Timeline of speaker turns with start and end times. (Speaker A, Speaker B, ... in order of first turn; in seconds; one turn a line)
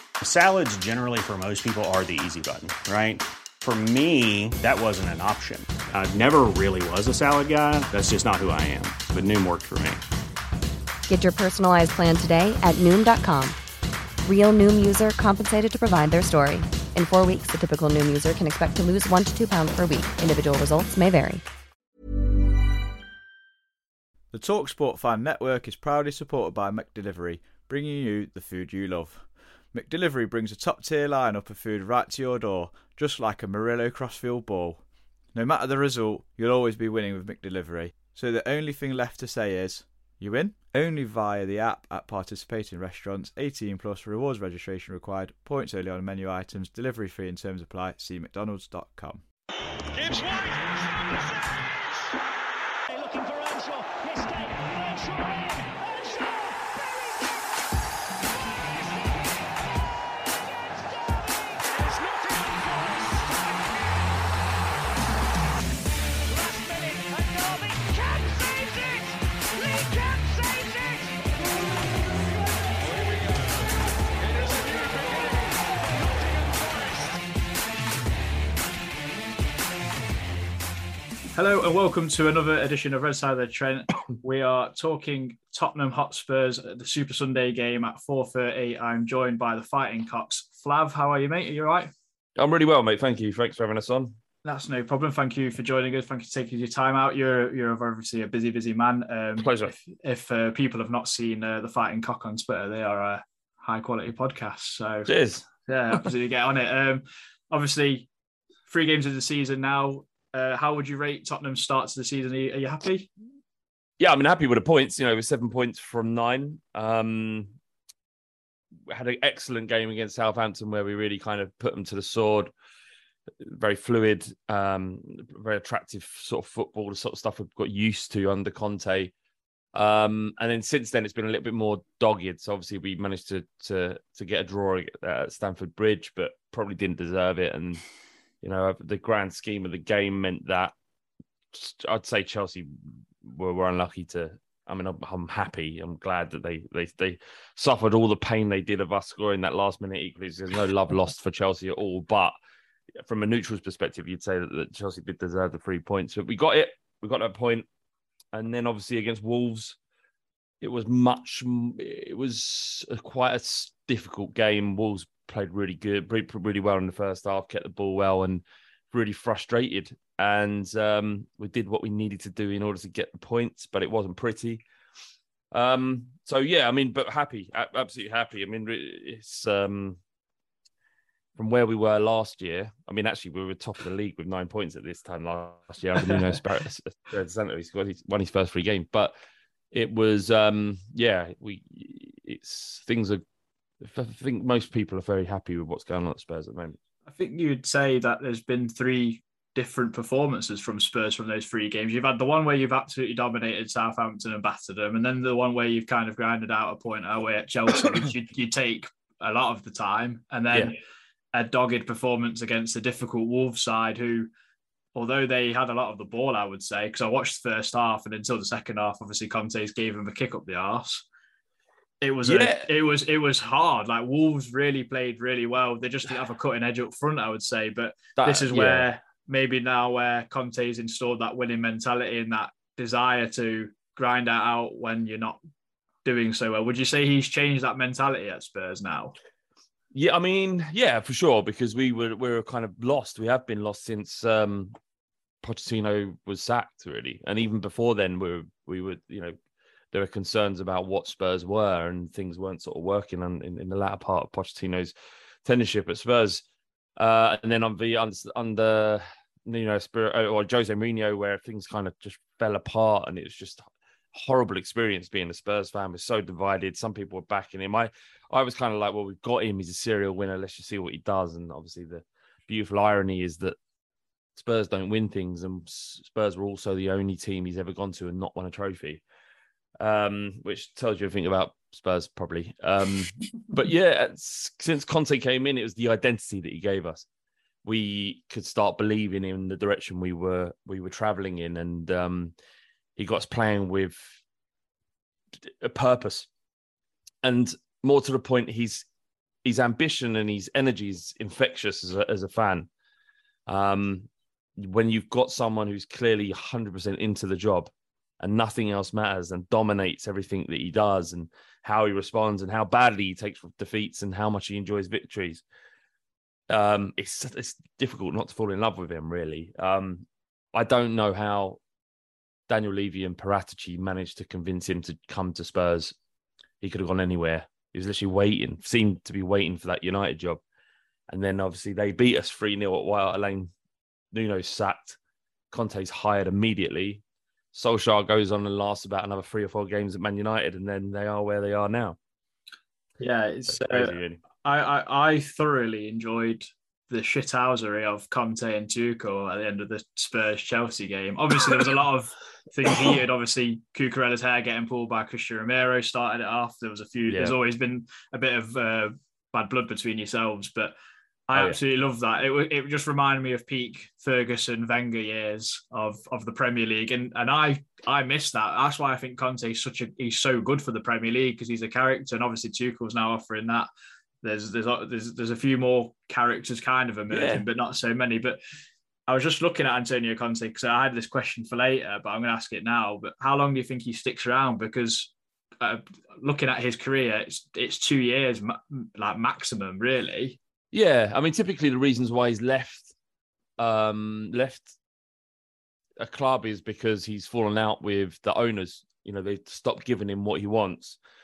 Speaker A: 0.2-10.0
Speaker B: 11.1-13.6
Speaker B: 14.2-21.4
Speaker C: 24.3-34.8
Speaker C: 35.3-49.2
Speaker D: 50.0-51.6
Speaker D: 52.9-57.2
Speaker D: 60.9-64.0
Speaker D: 66.3-73.6
Speaker D: 74.2-77.1
Speaker E: 81.3-91.9
Speaker F: 92.4-94.2
Speaker E: 94.4-105.1
Speaker F: 99.4-99.7
Speaker F: 105.1-106.0
Speaker E: 105.7-108.1
Speaker E: 108.7-113.1
Speaker F: 114.0-117.6
Speaker F: 118.9-122.5
Speaker F: 123.4-129.1
Speaker F: 129.7-137.8
Speaker F: 138.4-140.7
Speaker F: 141.5-152.3
Speaker F: 153.0-157.7
Speaker F: 158.3-159.8
Speaker F: 160.6-174.6
Speaker F: 175.5-180.0
Speaker F: 181.4-189.1
Speaker F: 189.7-193.2
Speaker F: 193.8-196.8
Speaker E: 197.1-210.8
Speaker E: 211.3-214.3
Speaker E: 214.9-221.1
Speaker E: 222.0-235.4
Speaker F: 222.2-222.7
Speaker F: 228.2-228.9
Speaker E: 236.1-239.2
Speaker F: 239.9-244.8
Speaker F: 245.4-249.4
Speaker F: 249.9-254.9
Speaker F: 255.4-256.4
Speaker F: 257.0-273.6
Speaker F: 274.4-279.0
Speaker F: 279.8-287.1
Speaker F: 287.6-292.3
Speaker F: 293.0-294.2
Speaker F: 295.4-296.3
Speaker F: 297.2-298.9
Speaker F: 299.4-302.7
Speaker F: 303.5-315.4
Speaker F: 316.5-321.6
Speaker F: 322.5-325.9
Speaker F: 326.6-330.4
Speaker F: 331.1-333.5
Speaker F: 334.1-335.0
Speaker F: 335.5-337.0
Speaker F: 337.5-342.0
Speaker E: 343.0-360.8
Speaker F: 343.5-344.2
Speaker F: 357.1-357.4
Speaker E: 361.3-373.7
Speaker E: 374.2-378.4
Speaker F: 377.1-377.4
Speaker E: 379.1-390.4
Speaker F: 390.7-392.9
Speaker F: 393.6-394.7
Speaker F: 396.0-401.0